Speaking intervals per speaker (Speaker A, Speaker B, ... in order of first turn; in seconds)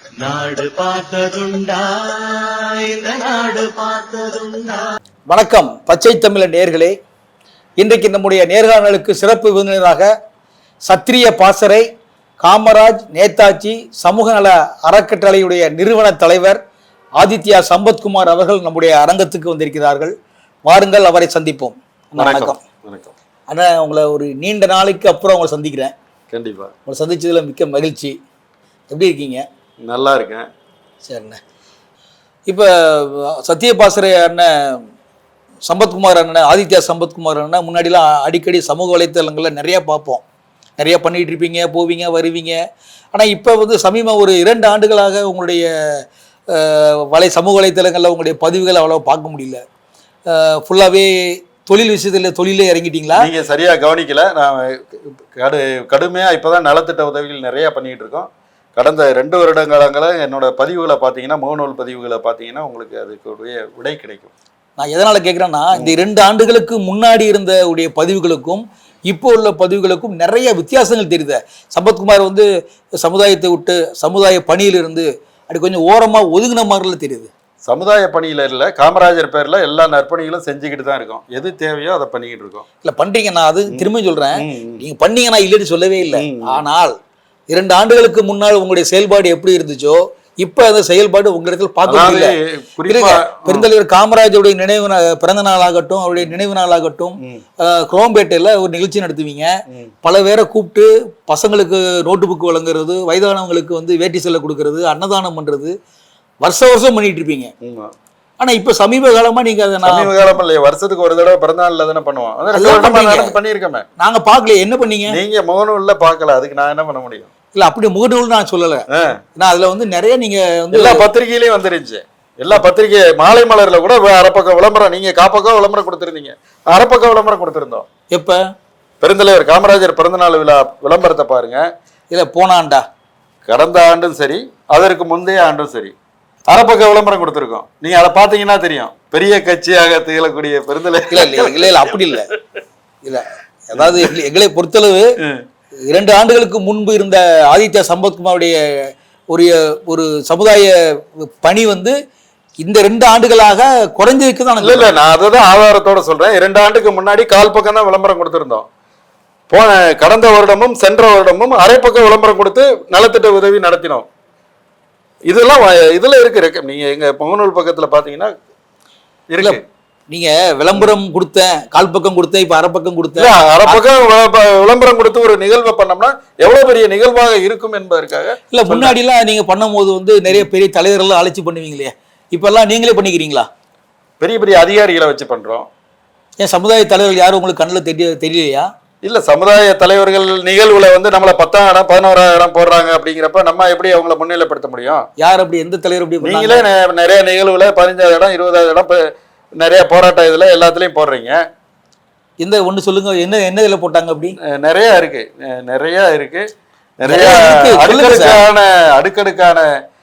Speaker A: 0.2-4.9
Speaker B: 5.3-7.0, 7.8-10.1, 10.9-11.9, 12.4-16.6, 17.2-20.1, 20.7-22.6, 23.5-25.9, 26.9-28.2, 28.9-29.4, 31.0-31.4, 32.5-34.8, 35.7-40.2, 40.8-42.6, 43.1-45.7, 46.5-49.6, 50.3-53.3, 64.8-72.5, 73.0-77.3, 82.8-87.0, 87.5-92.4, 92.9-99.5, 100.0-105.7, 106.4-107.5, 108.4-110.1, 112.5-113.4, 114.0-115.2, 117.5-121.0, 128.1-128.4, 132.1-132.8, 141.1-142.3, 143.0-145.1, 145.9-148.6, 149.3-151.9, 152.6-154.9, 169.4-173.8, 178.5-183.5, 186.4-188.7, 195.2-196.7, 202.4-204.4, 207.1-208.4
Speaker C: 22.2-23.1, 26.3-26.7, 29.8-30.5, 53.2-64.3, 77.7-82.6, 83.7-84.8, 86.1-86.6, 91.8-93.7, 107.6-107.9, 109.8-113.8, 115.1-117.3, 118.9-119.2, 120.7-127.9, 129.0-131.7, 133.5-135.9, 136.5-142.0, 143.8-144.1, 154.6-158.7, 159.5-164.1, 165.3-168.3, 169.3-169.6, 173.2-178.9, 184.2-185.7, 189.0-195.0, 196.2-199.0, 199.6-201.4, 204.5-206.5, 207.0-209.7